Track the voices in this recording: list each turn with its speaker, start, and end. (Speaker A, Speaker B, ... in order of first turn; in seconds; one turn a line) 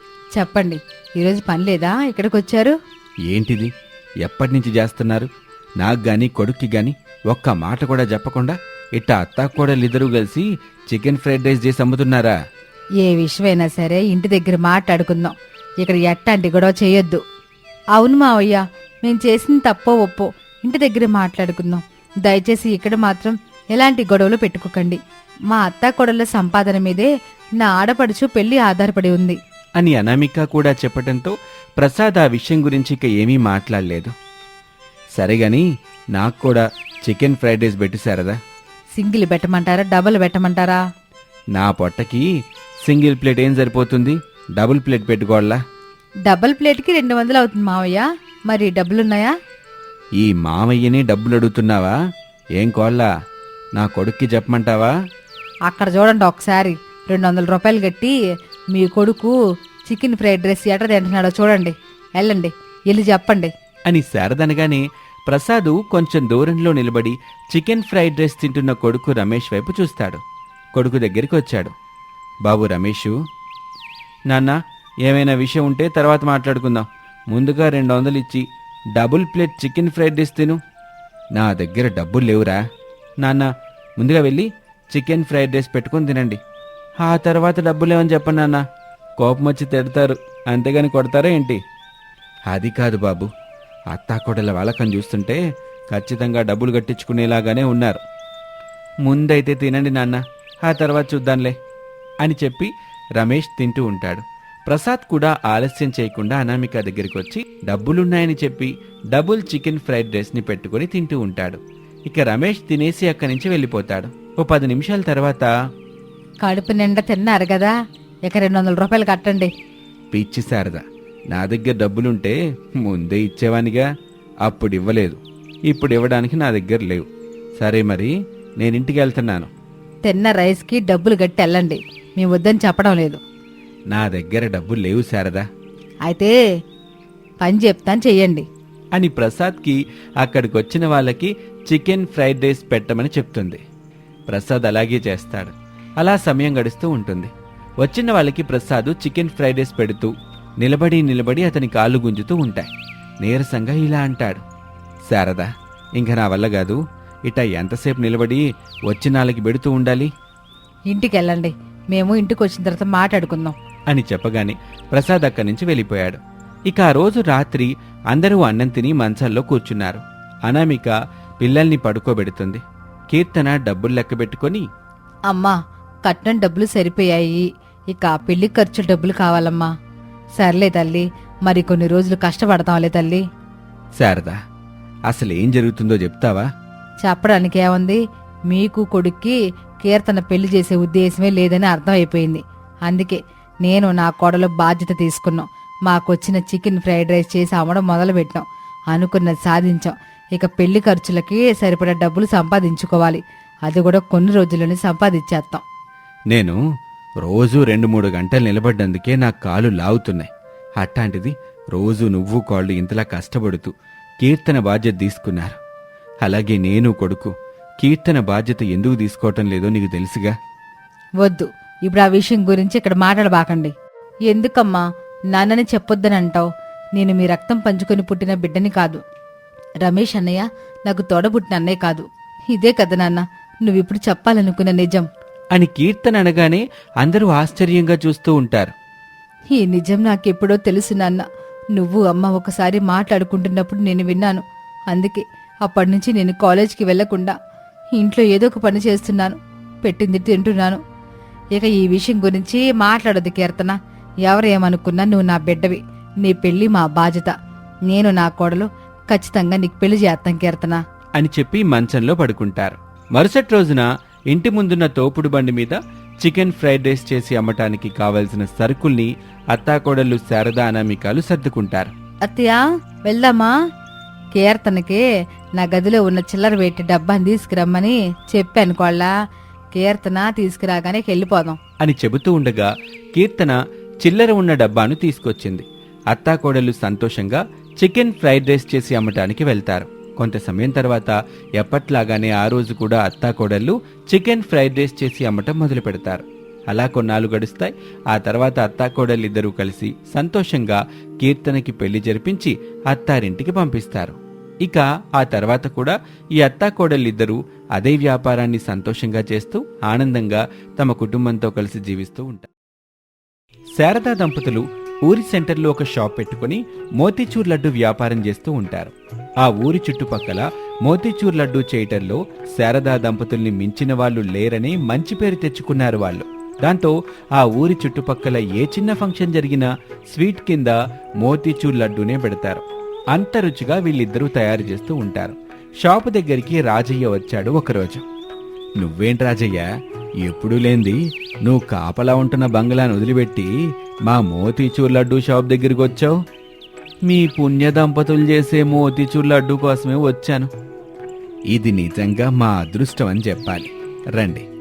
Speaker A: 0.4-2.8
Speaker B: 3.3-3.7
Speaker B: 4.2-5.3
Speaker B: 5.8-12.3
Speaker A: 13.0-17.2
Speaker A: 17.9-25.0
Speaker A: 25.5-27.1
Speaker A: 27.6-29.4
Speaker B: 29.8-34.1
Speaker B: 35.2-38.4
Speaker A: 39.0-40.8
Speaker B: 41.5-42.3
Speaker B: 42.8-45.6
Speaker A: 46.3-49.3
Speaker B: 50.2-51.9
Speaker B: 52.6-53.1
Speaker B: 53.8-54.9
Speaker A: 55.7-58.1
Speaker A: 58.7-59.3
Speaker A: 59.9-63.5
Speaker B: 63.9-70.2
Speaker B: 70.8-71.7
Speaker B: 72.5-73.1
Speaker B: 74.3-78.4
Speaker B: 79.0-80.6
Speaker B: 81.4-82.6
Speaker B: 83.2-86.4
Speaker B: 87.0-88.6
Speaker B: 89.2-91.6
Speaker B: 92.5-93.3
Speaker B: 93.9-98.0
Speaker B: 99.0-101.6
Speaker B: 102.2-115.5
Speaker A: 116.4-117.7
Speaker A: 118.3-119.5
Speaker B: 120.1-123.9
Speaker B: 124.4-127.1
Speaker B: 127.6-129.5
Speaker A: 130.1-133.2
Speaker B: 133.9-135.5
Speaker A: 136.1-136.3
Speaker A: 137.4-138.5
Speaker B: 139.0-143.6
Speaker B: 144.3-147.3
Speaker B: 147.8-152.7
Speaker B: 153.2-154.4
Speaker B: 155.1-160.1
Speaker A: 160.9-163.6
Speaker B: 163.9-174.7
Speaker A: 175.3-179.7
Speaker A: 180.4-183.2
Speaker B: 184.0-184.4
Speaker B: 185.1-186.5
Speaker A: 187.0-188.0
Speaker A: 188.5-205.6
Speaker B: 206.3-206.6
Speaker B: 207.2-215.6
Speaker B: 216.2-220.3
Speaker A: 221.2-223.7
Speaker A: 224.3-229.0
Speaker A: 229.8-235.1
Speaker B: 235.5-238.7
Speaker A: 239.5-247.3
Speaker A: 248.0-250.8
Speaker A: 251.5-257.3
Speaker A: 257.9-260.8
Speaker B: 261.2-271.9
Speaker A: 272.3-273.5
Speaker A: 274.4-275.0
Speaker A: 275.6-279.1
Speaker A: 279.7-281.6
Speaker B: 281.8-312.5
Speaker B: 313.8-338.0
Speaker B: 338.8-339.7
Speaker B: 340.2-343.5
Speaker B: 344.1-346.1
Speaker B: 347.1-350.5
Speaker B: 351.5-354.5